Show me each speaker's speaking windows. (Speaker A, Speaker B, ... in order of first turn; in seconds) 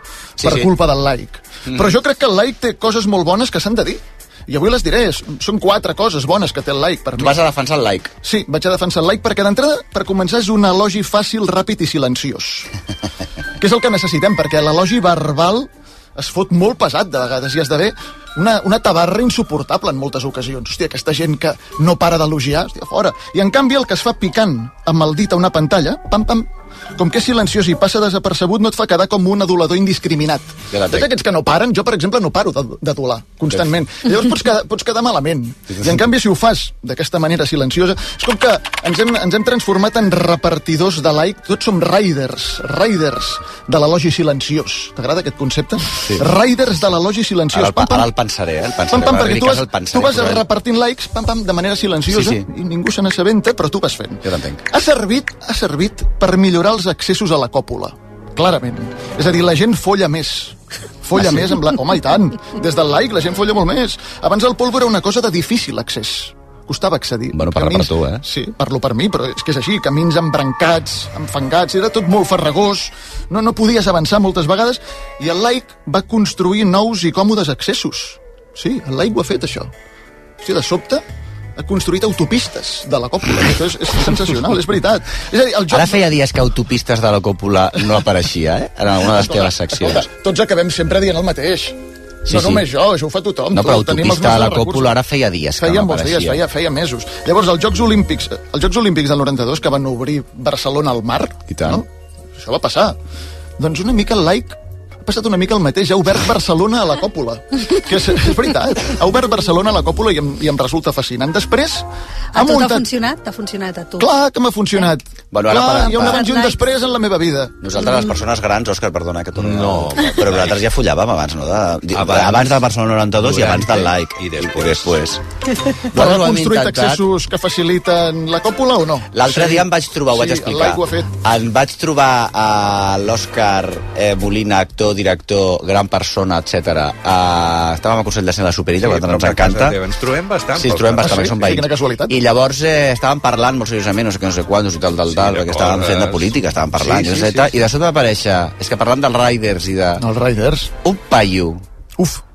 Speaker A: 0.4-7.4, 8.2-12.7, 13.6-48.1, 48.9-79.7, 80.4-81.0, 81.6-86.0, 89.1-94.9, 95.6-101.9, 102.4-103.0, 103.6-112.9, 114.0-117.6, 125.9-131.1, 141.0-142.2, 150.0-150.7
Speaker B: 0.4-0.7, 1.7-1.9, 7.2-8.1, 30.7-31.1, 35.7-36.0, 47.5-50.4, 52.1-52.4, 54.2-54.7, 61.2-61.5, 67.3-68.2, 85.7-90.1, 92.3-92.7, 93.5-96.4, 101.5-101.8, 115.3-116.3, 117.6-125.2, 125.9-127.0, 129.1-139.8, 140.6-150.0, 150.8-151.6
Speaker C: 112.3-114.1, 116.0-116.6
Speaker D: 119.4-120.7, 121.9-125.0, 138.8-141.3, 145.1-147.7